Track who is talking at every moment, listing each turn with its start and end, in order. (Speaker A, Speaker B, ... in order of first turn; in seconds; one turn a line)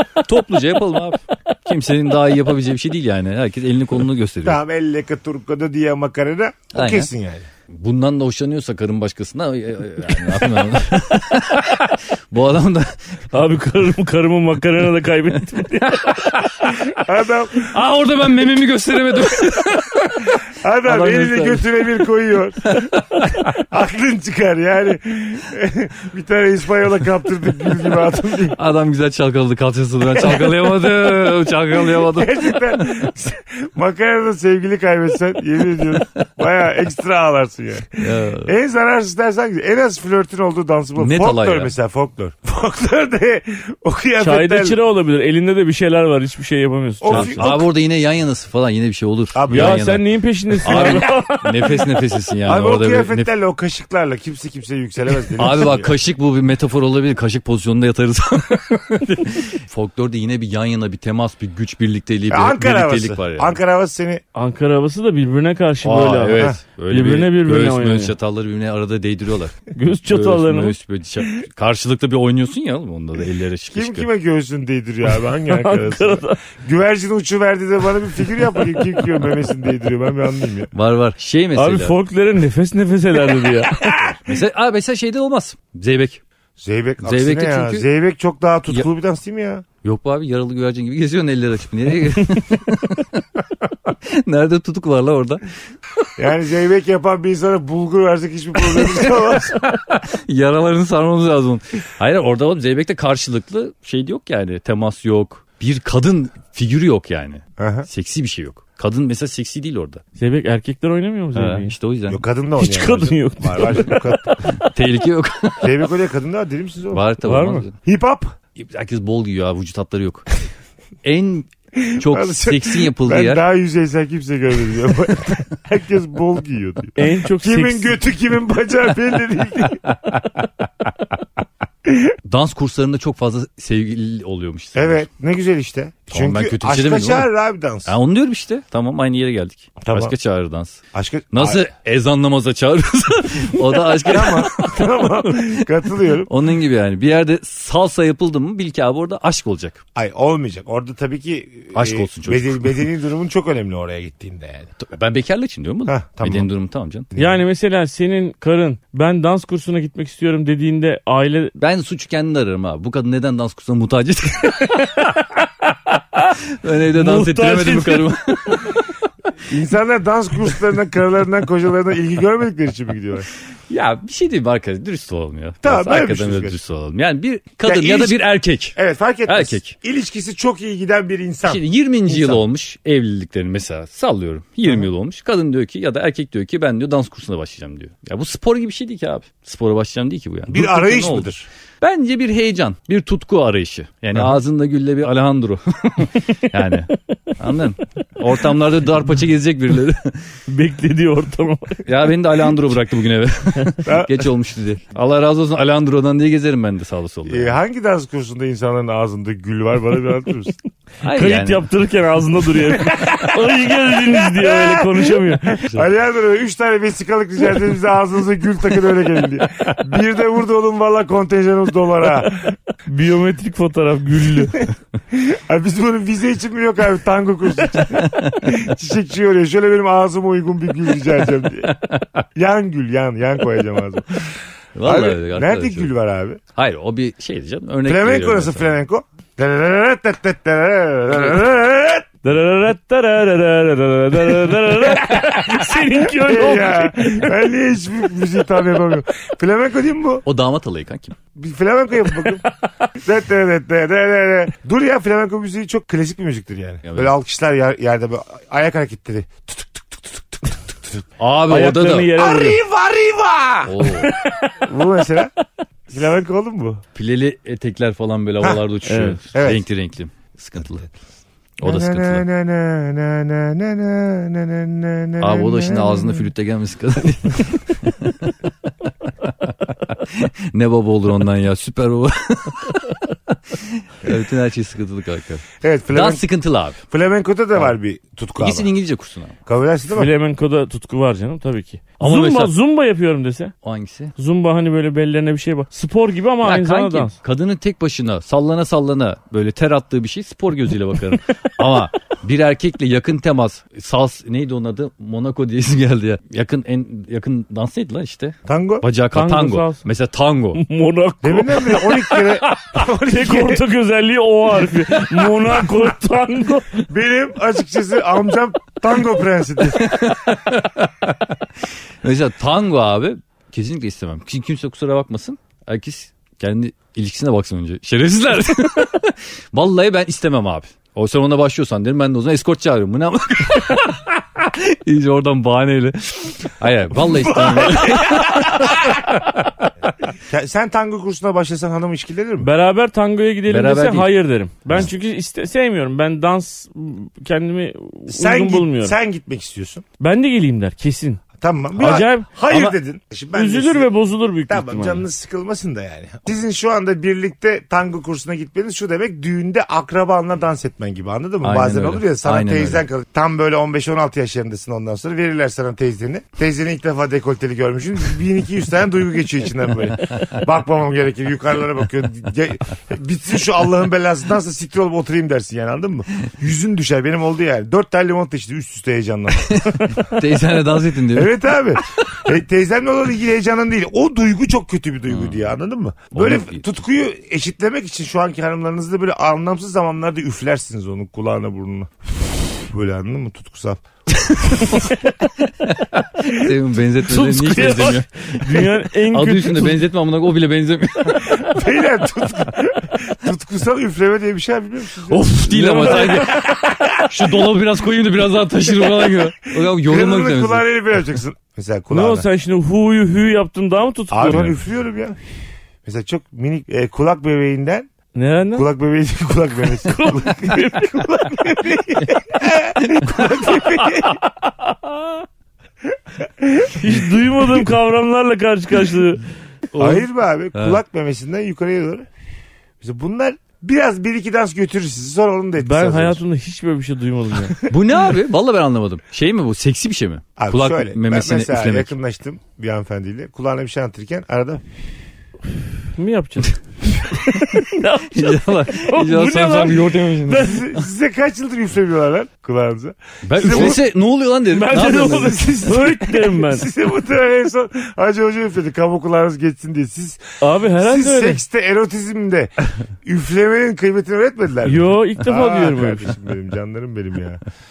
Speaker A: 0.2-4.6
Speaker B: 4.4-7.5
Speaker A: 6.7-7.1
Speaker A: 7.7-13.2
Speaker C: 13.3-16.4
Speaker A: 16.1-16.8
Speaker B: 16.7-17.7
Speaker A: 17.6-21.9
Speaker B: 20.6-22.8
Speaker A: 22.7-23.5
Speaker B: 23.5-28.6
Speaker A: 28.5-32.9
Speaker B: 30.1-44.8
Speaker A: 38.0-38.5
Speaker A: 41.0-41.7
Speaker C: 44.2-47.6
Speaker B: 47.0-47.6
Speaker A: 47.1-50.0
Speaker B: 49.3-49.8
Speaker C: 49.5-52.0
Speaker A: 50.6-53.3
Speaker B: 50.6-51.1
Speaker B: 52.5-55.9
Speaker A: 55.4-63.6
Speaker B: 62.3-64.2
Speaker C: 64.3-68.1
Speaker A: 65.8-74.1
Speaker C: 69.7-70.7
Speaker B: 73.7-80.7
Speaker C: 75.5-76.4
Speaker A: 80.7-82.0
Speaker C: 81.5-84.1
Speaker B: 83.7-84.2
Speaker A: 84.3-86.2
Speaker B: 86.6-89.6
Speaker A: 87.0-87.8
Speaker A: 89.8-93.2
Speaker A: 93.9-96.1
Speaker B: 96.2-100.0
Speaker A: 98.6-99.2
Speaker A: 100.0-110.0
Speaker B: 107.6-107.9
Speaker C: 110.2-111.7
Speaker A: 111.3-112.2
Speaker B: 112.1-114.5
Speaker C: 112.6-114.5
Speaker A: 114.6-115.8
Speaker B: 115.6-117.0
Speaker A: 116.9-117.7
Speaker C: 117.2-117.7
Speaker B: 117.8-118.3
Speaker A: 118.6-120.3
Speaker A: 121.0-123.4
Speaker B: 121.8-129.8
Speaker C: 127.0-128.0
Speaker B: 131.8-132.2
Speaker A: 132.2-135.0
Speaker B: 134.7-137.9
Speaker A: 136.1-137.3
Speaker A: 137.8-140.8
Speaker B: 139.8-140.1
Speaker B: 140.9-141.6
Speaker A: 141.3-149.8
Speaker B: 143.8-146.3
Speaker B: 149.9-154.7
Speaker A: 151.7-152.8
Speaker A: 154.8-157.1
Speaker B: 155.9-156.5
Speaker B: 157.1-157.4
Speaker C: 157.2-161.5
Speaker A: 161.6-165.1
Speaker C: 164.8-165.4
Speaker C: 165.9-166.3
Speaker A: 166.6-168.8
Speaker C: 166.9-168.1
Speaker B: 169.4-173.3
Speaker A: 173.7-179.7
Speaker B: 175.6-176.6
Speaker B: 177.6-178.2
Speaker B: 178.7-182.4
Speaker A: 181.4-200.2
Speaker B: 190.5-191.5
Speaker C: 200.5-201.8
Speaker A: 201.8-207.5
Speaker B: 203.8-204.3
Speaker B: 207.2-210.6
Speaker A: 211.0-211.7
Speaker C: 211.1-215.6
Speaker B: 212.6-222.6
Speaker C: 222.8-224.6
Speaker B: 224.5-231.8
Speaker A: 227.9-228.6
Speaker A: 231.7-232.2
Speaker B: 232.3-236.4
Speaker A: 234.7-235.9
Speaker A: 236.5-238.8
Speaker B: 237.8-242.1
Speaker C: 242.2-247.2
Speaker B: 244.8-250.2
Speaker A: 250.2-251.2
Speaker B: 251.3-261.0
Speaker A: 256.8-257.1
Speaker A: 261.2-262.2
Speaker C: 261.5-262.6
Speaker B: 262.2-265.3
Speaker A: 263.6-264.1
Speaker B: 265.9-266.8
Speaker A: 266.9-270.9
Speaker C: 268.8-269.2
Speaker B: 269.3-269.6
Speaker A: 271.6-272.2
Speaker B: 271.6-276.3
Speaker A: 275.2-278.3
Speaker A: 279.2-286.8
Speaker B: 285.6-286.2
Speaker B: 286.9-288.7
Speaker A: 288.4-289.3
Speaker B: 289.4-290.1
Speaker C: 289.9-293.5
Speaker A: 292.0-292.5
Speaker A: 293.6-294.1
Speaker C: 294.1-297.1
Speaker A: 296.4-310.6
Speaker B: 308.4-308.8
Speaker C: 309.1-309.8
Speaker C: 310.5-316.8
Speaker B: 311.2-313.6
Speaker B: 316.9-319.9
Speaker A: 319.7-321.4
Speaker A: 322.0-339.3
Speaker B: 337.0-338.7
Speaker B: 340.2-342.5
Speaker C: 342.4-348.9
Speaker A: 343.5-344.1
Speaker B: 348.1-349.8
Speaker C: 350.0-351.2
Speaker B: 351.4-353.9
Speaker C: 351.8-352.7
Speaker C: 353.3-355.0
Speaker B: 354.5-380.0
Speaker A: 361.4-362.8
Speaker A: 379.4-381.3
Speaker B: 381.1-393.8
Speaker A: 385.1-385.5
Speaker A: 386.1-386.6
Speaker A: 394.3-401.6
Speaker B: 396.3-396.5
Speaker C: 397.0-399.8
Speaker B: 401.1-405.2
Speaker A: 405.1-410.6
Speaker C: 405.5-406.4
Speaker B: 405.8-407.4
Speaker B: 408.8-412.3
Speaker C: 411.9-414.5
Speaker B: 414.1-415.2
Speaker B: 415.8-417.9
Speaker C: 418.1-418.7
Speaker B: 418.5-424.2
Speaker C: 419.8-421.4
Speaker C: 423.5-424.5
Speaker B: 426.2-427.2
Speaker C: 426.7-429.2
Speaker A: 429.7-430.8
Speaker B: 429.8-432.1
Speaker B: 432.8-436.2
Speaker C: 435.6-437.6
Speaker A: 437.7-441.9
Speaker B: 440.4-444.6
Speaker C: 445.9-450.6
Speaker A: 447.3-450.8
Speaker B: 450.3-453.8
Speaker A: 453.2-455.6
Speaker C: 453.5-453.8
Speaker C: 454.5-456.7
Speaker B: 454.9-467.4
Speaker C: 460.4-461.4
Speaker C: 464.6-466.1